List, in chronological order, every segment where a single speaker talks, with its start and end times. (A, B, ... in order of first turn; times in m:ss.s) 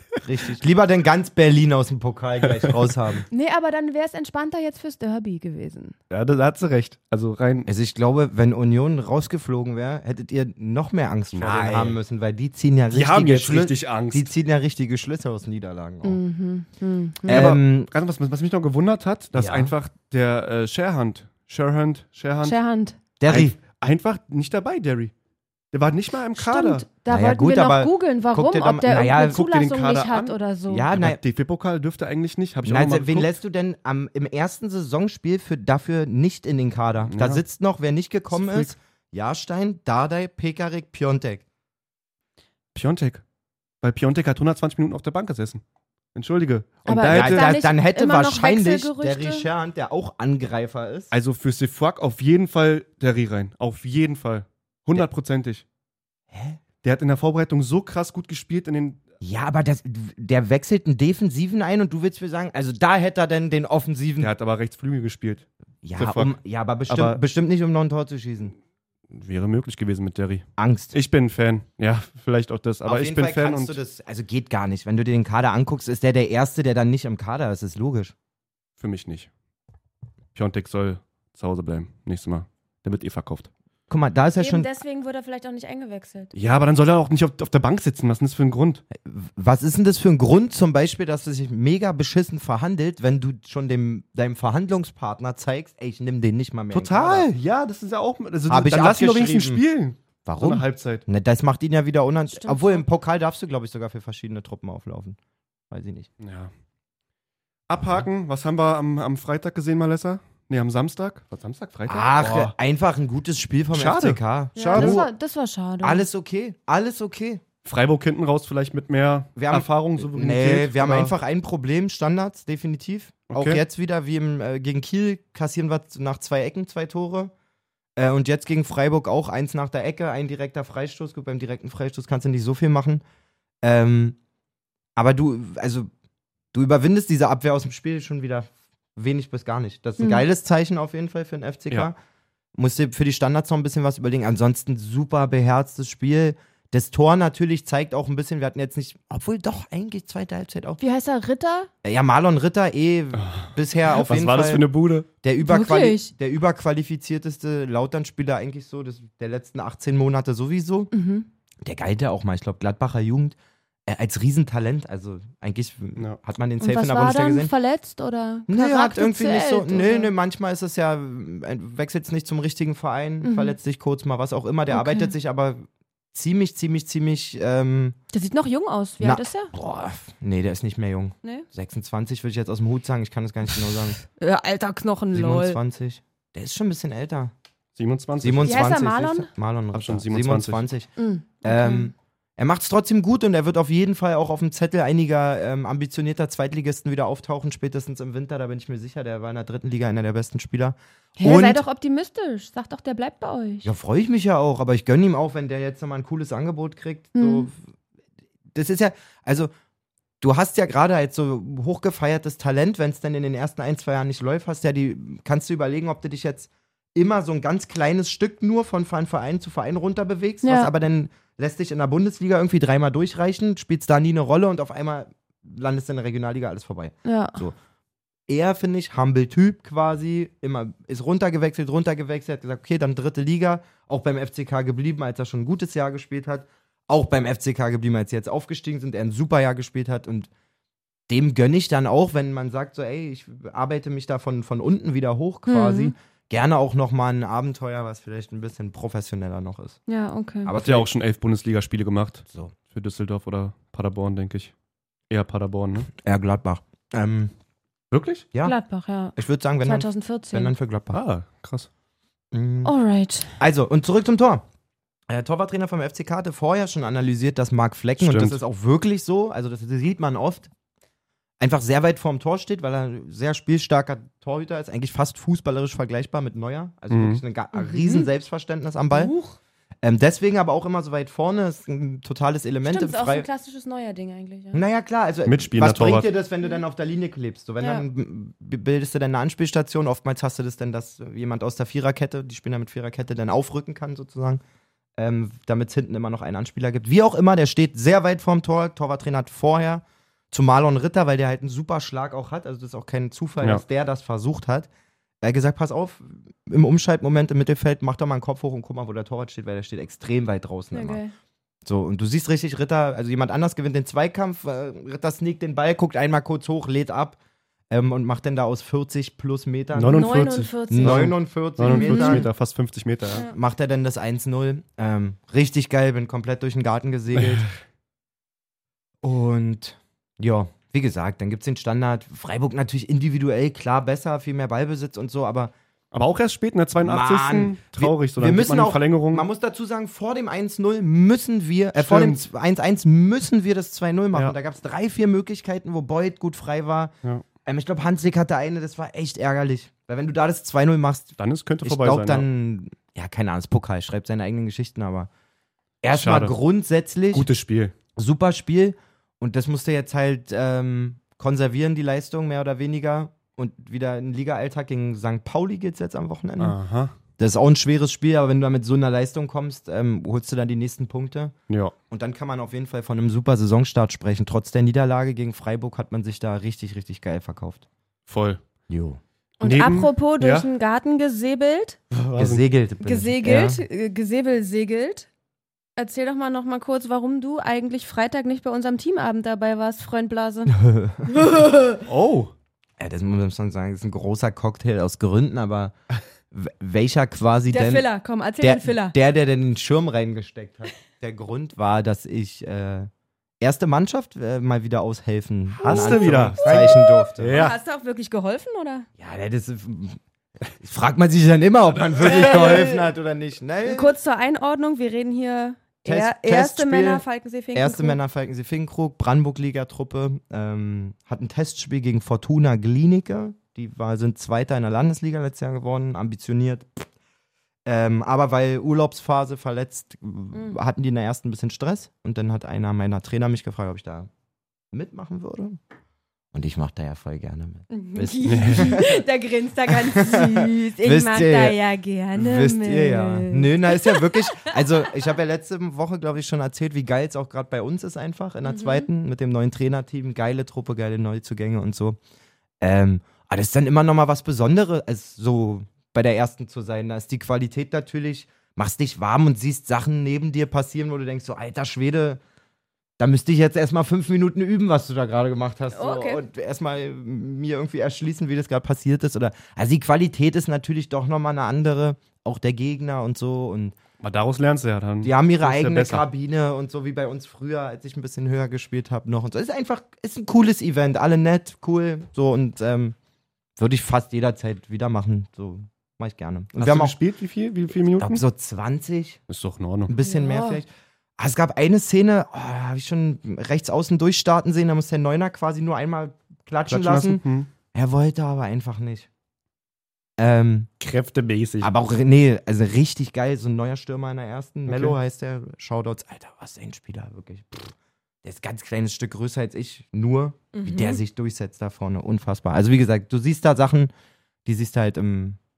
0:00.2-0:03.3 A
0:03.3-0:06.0 B
0:06.1-0:07.7 C
0:07.7-0:16.2 A
0:11.3-0:12.0 C
0:12.9-0:14.3 C
0:16.0-0:17.5 B
0:17.3-0:22.6 C
0:17.3-0:17.9 A
0:19.4-0:19.7 A
0:22.4-0:23.0 B
0:23.2-0:23.6 A
0:23.3-0:25.1 C
0:25.7-0:26.9 C
0:26.4-0:30.9 B
0:27.1-0:29.4 A
0:29.0-0:30.4 C
0:30.7-0:31.2 A
0:30.9-0:33.3 C
0:32.6-0:41.4 A
0:37.1-0:37.4 C
0:38.3-0:38.7 C
0:42.7-0:43.2 C
0:43.8-0:45.6 C
0:46.1-0:47.6 C
0:46.9-0:49.5 B
0:47.1-0:51.1 A
0:51.1-0:55.6 C
0:56.3-0:56.6 A
0:56.8-0:59.0 C
0:59.2-1:04.3 A
1:04.2-1:05.4 C
1:05.8-1:08.6 A
1:06.0-1:06.3 C
1:06.9-1:07.2 C
1:09.1-1:13.8 C
1:10.6-1:11.0 A
1:12.9-1:18.1 A
1:18.8-1:19.3 C
1:20.4-1:23.5 C
1:23.9-1:24.7 A
1:24.4-1:26.3 B
1:26.4-1:28.8 C
1:29.0-1:37.3 A
1:36.7-1:41.0 C
1:38.5-1:39.6 A
1:40.2-1:45.2 A
1:42.3-1:42.8 B
1:45.7-1:46.1 A
1:46.2-1:46.5 C
1:47.7-1:52.6 C
1:51.9-1:55.1 A
1:53.7-1:55.0 C
1:54.6-1:56.0 B
1:55.8-1:57.4 A
1:57.6-2:01.1 C
1:59.4-2:07.3 A
2:03.3-2:03.6 C
2:08.0-2:13.0 A
2:13.6-2:14.2 A
2:15.0-2:15.9 A
2:16.5-2:22.0 A
2:20.0-2:20.2 B
2:22.6-2:30.8 A
2:30.8-2:31.7 B
2:31.8-2:34.7 A
2:33.1-2:35.1 C
2:35.2-2:40.9 A
2:35.4-2:36.1 B
2:40.9-2:41.3 B
2:41.6-2:43.4 A
2:43.9-2:47.5 A
2:46.6-2:50.1 B
2:48.5-2:58.0 A
2:53.2-2:53.6 B
2:54.7-2:55.1 B
2:58.1-2:59.5 B
2:59.0-3:04.0 A
3:04.2-3:05.6 B
3:05.1-3:07.3 A
3:07.8-3:08.8 C
3:08.2-3:10.9 A
3:08.4-3:09.3 B
3:09.7-3:10.6 C
3:11.0-3:11.9 B
3:11.4-3:21.6 A
3:21.2-3:23.7 B
3:23.6-3:27.6 A
3:27.2-3:27.5 B
3:28.5-3:29.5 A
3:30.2-3:47.6 A
3:40.4-3:40.7 B
3:47.0-3:47.4 B
3:48.3-4:00.3 A
4:01.1-4:09.8 A
4:05.5-4:05.9 B
4:09.9-4:10.5 B
4:10.5-4:10.9 A
4:10.6-4:14.5 C
4:12.3-4:12.6 A
4:15.1-4:15.9 C
4:16.0-4:17.3 A
4:17.9-4:18.3 C
4:18.4-4:20.5 B
4:19.2-4:21.0 A
4:20.9-4:21.7 C
4:22.3-4:22.7 A
4:22.6-4:23.3 B
4:23.4-4:24.4 A
4:25.1-4:30.5 A
4:28.0-4:28.4 C
4:31.4-4:39.1 A
4:36.9-4:37.2 C
4:37.5-4:38.1 B
4:38.9-4:39.4 B
4:39.8-4:43.3 A
4:42.6-4:44.6 B
4:44.5-4:54.4 A
4:45.3-4:46.1 C
4:55.0-5:04.7 A
5:05.2-5:11.0 A
5:10.7-5:11.1 B
5:11.7-5:17.2 A
5:17.7-5:20.2 A
5:19.7-5:23.3 C
5:19.9-5:21.1 B
5:20.7-5:22.3 A
5:21.7-5:22.2 B
5:23.3-5:27.5 A
5:27.1-5:27.5 C
5:29.0-5:35.5 A
5:35.9-5:39.3 C
5:36.8-5:46.9 A
5:41.8-5:42.2 C
5:47.4-5:55.1 A
5:51.2-5:52.3 C
5:55.8-5:57.3 A
5:55.9-5:56.4 C
5:57.1-5:57.7 C
5:58.0-6:06.6 A
6:06.4-6:07.0 C
6:07.2-6:11.3 A
6:11.9-6:17.7 A
6:18.1-6:18.4 C
6:18.7-6:19.0 A
6:19.4-6:21.8 B
6:19.4-6:20.5 C
6:21.9-6:22.4 C
6:22.2-6:23.6 A
6:22.8-6:25.1 B
6:25.8-6:30.5 B
6:30.5-6:31.3 A
6:31.1-6:31.8 B
6:31.9-6:32.3 C
6:32.8-6:35.8 A
6:36.3-6:37.9 A
6:37.5-6:39.0 B
6:38.4-6:42.9 A
6:43.4-6:47.4 A
6:45.6-6:47.6 C
6:45.6-6:48.9 B
6:49.0-6:53.9 A
6:52.0-6:52.7 C
6:52.1-6:52.8 B
6:53.6-6:58.0 B
6:55.8-6:57.0 A
6:57.5-7:06.8 A
7:07.7-7:14.1 A
7:14.7-7:15.6 A
7:16.3-7:19.0 A
7:17.7-7:24.6 B
7:18.2-7:18.8 C
7:19.7-7:21.6 A
7:22.2-7:32.0 A
7:28.4-7:28.9 B
7:32.6-7:42.2 A
7:43.0-7:53.8 A
7:45.7-7:46.2 B
7:54.0-7:56.0 C
7:55.0-8:03.0 A
8:03.6-8:07.0 A
8:06.6-8:08.2 C
8:08.0-8:09.2 A
8:09.3-8:09.9 C
8:09.9-8:17.2 A
8:10.0-8:10.6 B
8:16.7-8:17.5 C
8:17.7-8:19.1 A
8:20.2-8:20.7 A
8:20.8-8:21.7 C
8:21.6-8:33.9 A
8:24.7-8:25.0 C
8:30.5-8:31.0 B
8:34.5-8:35.4 A